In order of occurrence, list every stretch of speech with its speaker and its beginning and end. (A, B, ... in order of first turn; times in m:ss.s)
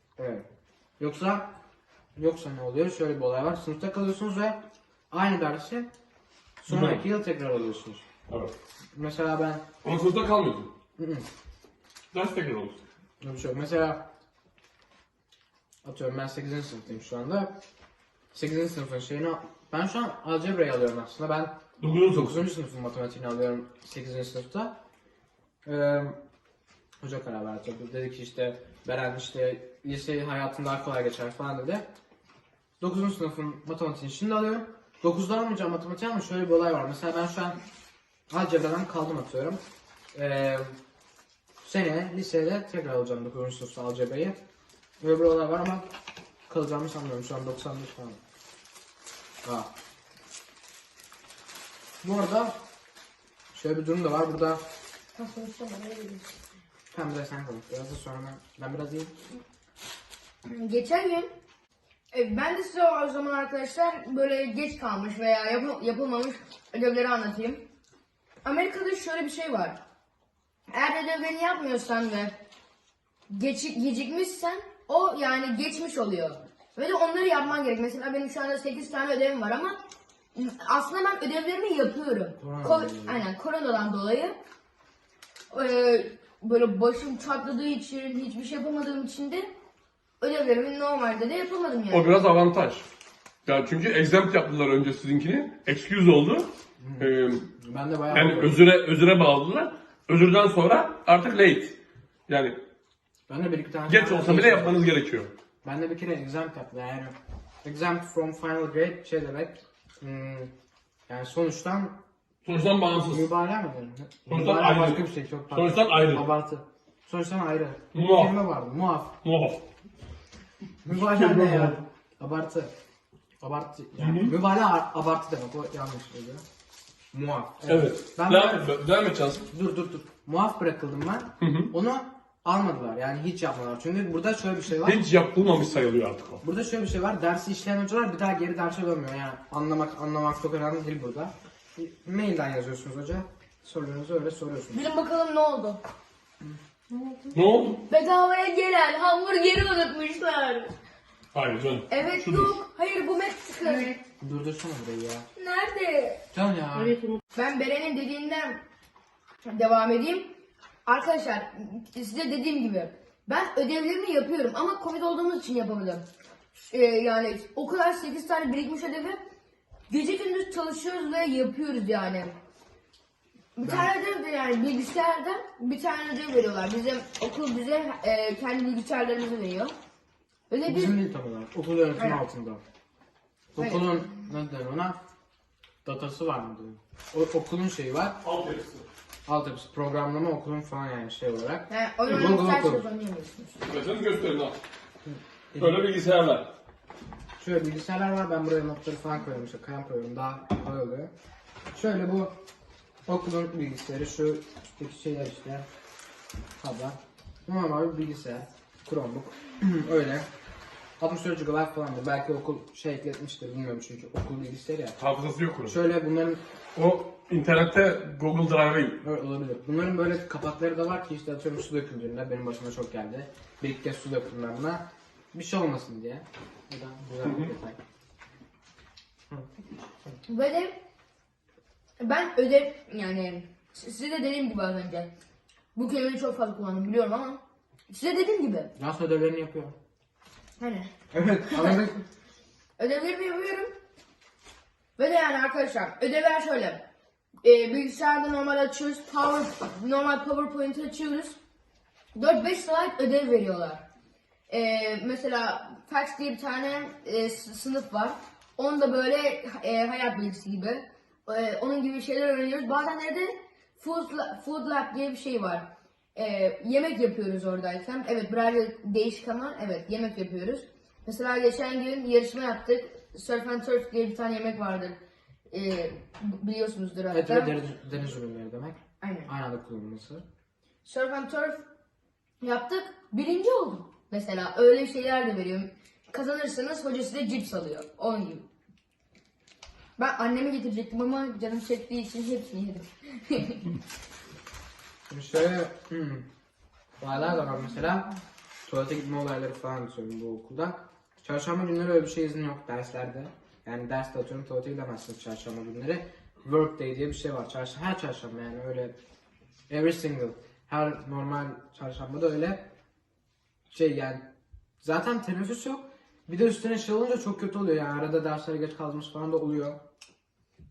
0:00.2-0:00.4 A
0:01.0-0:01.5 A
0:02.2-0:05.9 A
0:06.6-0:08.0 A
0:06.7-0:07.0 B
0:08.3-0:08.5 B
0:08.9-0:09.6 A
0:09.8-0:10.7 B
0:11.0-0:11.3 A
0:12.1-0:12.8 B
0:13.2-0:14.1 A
0:15.8-0:17.5 A
0:18.3-0:24.8 A
0:21.8-0:22.4 B
0:25.6-0:26.2 A
0:27.0-0:31.9 A
0:32.8-0:37.6 A
0:38.3-0:39.6 A
0:40.1-0:40.8 A
0:41.6-0:44.4 A
0:45.0-0:45.9 A
0:46.5-0:48.2 A
0:49.4-0:49.7 A
0:52.0-0:52.6 A
0:53.5-0:54.6 A
0:55.1-0:56.4 C
0:56.9-0:59.1 A
1:00.4-1:01.3 C
1:02.1-1:07.6 C
1:08.4-1:09.8 C
1:10.7-1:12.4 C
1:13.3-1:19.8 C
1:20.3-1:24.4 C
1:22.4-1:23.2 A
1:25.5-1:29.5 C
1:30.2-1:32.2 C
1:31.9-1:32.8 B
1:33.4-1:37.5 B
1:36.8-1:38.6 A
1:38.1-1:41.8 B
1:42.3-1:42.6 B
1:43.3-1:44.8 A
1:43.9-1:45.3 B
1:45.6-1:50.5 A
1:51.1-1:52.0 A
1:52.4-1:53.3 B
1:53.1-1:59.2 A
1:54.3-1:56.2 B
1:57.9-1:58.4 B
1:59.2-1:59.6 B
2:00.8-2:02.7 A
2:00.9-2:01.8 B
2:03.4-2:06.4 A
2:04.0-2:04.3 B
2:07.1-2:08.7 A
2:07.6-2:09.4 B
2:09.5-2:15.0 A
2:11.4-2:11.7 B
2:14.8-2:16.4 B
2:16.4-2:24.9 A
2:24.7-2:25.8 C
2:27.3-2:27.8 B
2:27.8-2:30.7 C
2:31.3-2:32.6 B
2:31.9-2:34.0 C
2:34.2-2:35.3 A
2:35.4-2:36.2 C
2:36.3-2:37.0 A
2:37.3-2:38.6 C
2:39.4-2:40.3 C
2:40.8-2:49.2 C
2:49.9-2:52.3 C
2:53.6-2:59.7 C
2:53.6-2:53.9 A
3:00.5-3:01.0 C
3:00.6-3:02.6 A
3:03.5-3:05.0 A
3:03.6-3:04.0 C
3:05.8-3:08.2 A
3:08.2-3:08.8 B
3:09.2-3:12.8 A
3:11.7-3:13.7 C
3:13.6-3:14.6 B
3:15.0-3:15.8 A
3:15.5-3:16.5 B
3:17.4-3:21.1 A
3:21.7-3:22.4 A
3:23.1-3:25.7 A
3:26.6-3:30.3 A
3:31.0-3:35.0 A
3:35.0-3:35.8 B
3:35.6-3:36.4 A
3:36.8-3:39.0 B
3:39.0-3:47.8 A
3:47.2-3:47.5 B
3:50.3-3:50.8 C
3:52.0-3:55.1 C
3:55.7-3:58.7 C
3:58.8-3:59.8 A
4:00.6-4:00.9 C
4:01.1-4:02.0 A
4:01.5-4:01.8 C
4:02.8-4:03.7 C
4:05.0-4:06.8 C
4:07.4-4:11.4 C
4:12.1-4:13.8 C
4:14.5-4:35.0 C
4:35.5-4:37.5 C
4:37.1-4:40.2 A
4:39.0-4:39.3 C
4:40.8-4:41.6 C
4:42.4-4:48.5 C
4:50.0-4:53.8 C
4:55.1-4:56.3 A
4:57.0-4:58.1 A
4:58.6-5:09.0 A
5:09.7-5:12.7 A
5:13.7-5:14.3 A
5:14.8-5:19.8 A